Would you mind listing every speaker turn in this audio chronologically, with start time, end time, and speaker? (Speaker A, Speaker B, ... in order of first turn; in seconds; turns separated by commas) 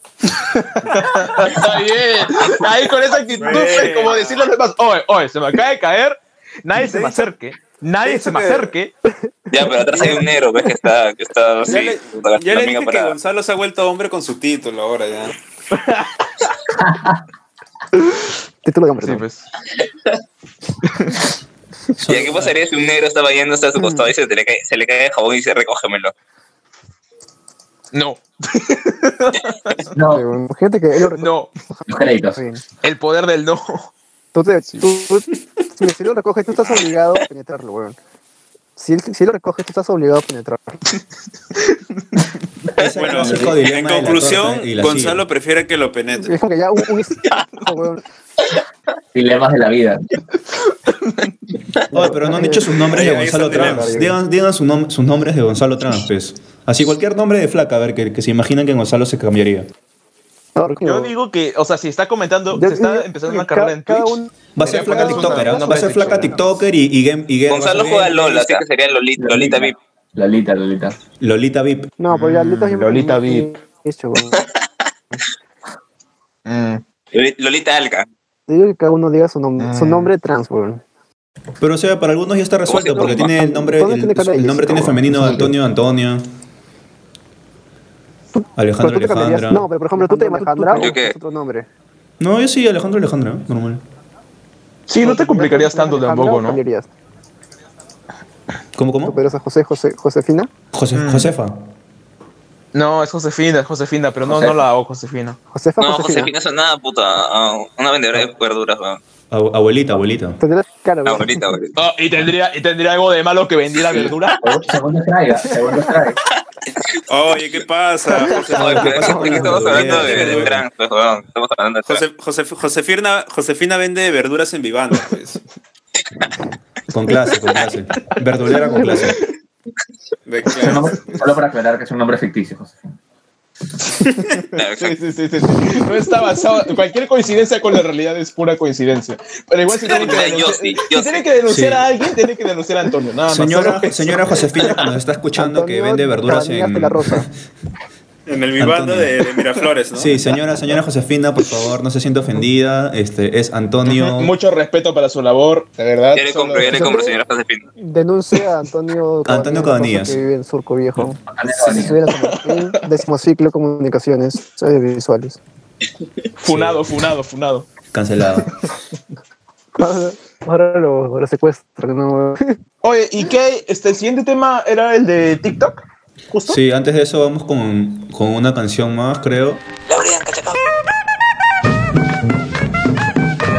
Speaker A: 0.3-8.9, Speaker B: 2.2-2.7, Speaker C: 3.4-4.5, Speaker C: 6.8-7.3, Speaker C: 8.0-8.7, Speaker B: 9.5-13.2, Speaker C: 9.9-10.2, Speaker C: 11.7-15.3, Speaker A: 15.7-16.4, Speaker D: 18.6-19.2, Speaker A: 19.0-19.4, Speaker A: 20.9-21.2, Speaker E: 22.0-22.6, Speaker B: 22.1-26.1, Speaker D: 23.8-24.1, Speaker A: 27.9-29.9, Speaker F: 29.9-30.3, Speaker D: 30.1-32.6, Speaker A: 31.0-31.5, Speaker F: 31.9-32.4, Speaker A: 32.8-33.9, Speaker D: 34.3-38.0, Speaker D: 38.8-40.8, Speaker A: 41.6-42.2, Speaker E: 42.8-45.2, Speaker C: 42.8-46.4, Speaker F: 43.1-43.6, Speaker D: 46.2-48.0, Speaker F: 49.1-50.1, Speaker D: 51.9-54.1, Speaker E: 51.9-59.7, Speaker C: 52.9-54.0, Speaker D: 60.6-61.1, Speaker A: 60.8-66.4, Speaker D: 62.5-66.4, Speaker E: 64.6-68.6, Speaker B: 67.5-69.8, Speaker F: 69.2-71.0, Speaker E: 71.2-71.9, Speaker D: 72.0-74.4, Speaker A: 72.1-73.6, Speaker A: 76.5-76.8, Speaker B: 77.1-78.1, Speaker D: 78.5-80.8, Speaker A: 79.6-80.1, Speaker E: 81.6-86.3, Speaker B: 82.7-83.3, Speaker D: 83.0-85.5, Speaker D: 88.3-91.7, Speaker E: 88.6-89.7, Speaker A: 90.0-90.7, Speaker B: 90.7-91.2, Speaker E: 92.2-93.8, Speaker A: 94.9-96.6, Speaker D: 95.0-96.9, Speaker E: 98.8-99.2, Speaker D: 99.0-100.5, Speaker E: 100.7-101.7, Speaker A: 100.9-101.3, Speaker A: 102.7-105.4, Speaker F: 104.2-104.6, Speaker D: 105.5-106.3, Speaker B: 105.8-109.0, Speaker E: 109.3-110.4, Speaker D: 110.4-111.4, Speaker B: 111.0-111.8, Speaker A: 111.8-114.5, Speaker F: 113.9-116.2, Speaker C: 117.1-120.5, Speaker A: 118.3-119.7, Speaker B: 118.5-122.0, Speaker E: 118.6-120.7, Speaker C: 121.9-125.4, Speaker E: 126.9-129.2, Speaker C: 130.3-131.1, Speaker F: 130.5-132.9, Speaker A: 134.2-144.8, Speaker B: 134.6-135.0, Speaker B: 139.8-141.2, Speaker C: 139.9-140.3, Speaker E: 141.5-141.9, Speaker E: 143.3-147.3, Speaker D: 145.4-147.3, Speaker C: 148.3-150.2, Speaker E: 148.6-149.2, Speaker E: 149.9-154.3, Speaker A: 153.9-157.0, Speaker B: 156.1-157.7, Speaker D: 156.7-157.1, Speaker D: 157.8-165.4, Speaker E: 159.2-160.2, Speaker F: 161.3-162.1, Speaker A: 162.1-162.9, Speaker A: 166.4-167.7, Speaker E: 166.5-166.8, Speaker E: 167.9-168.5, Speaker D: 169.8-172.6, Speaker A: 172.8-176.6, Speaker E: 176.5-179.6, Speaker B: 179.9-180.6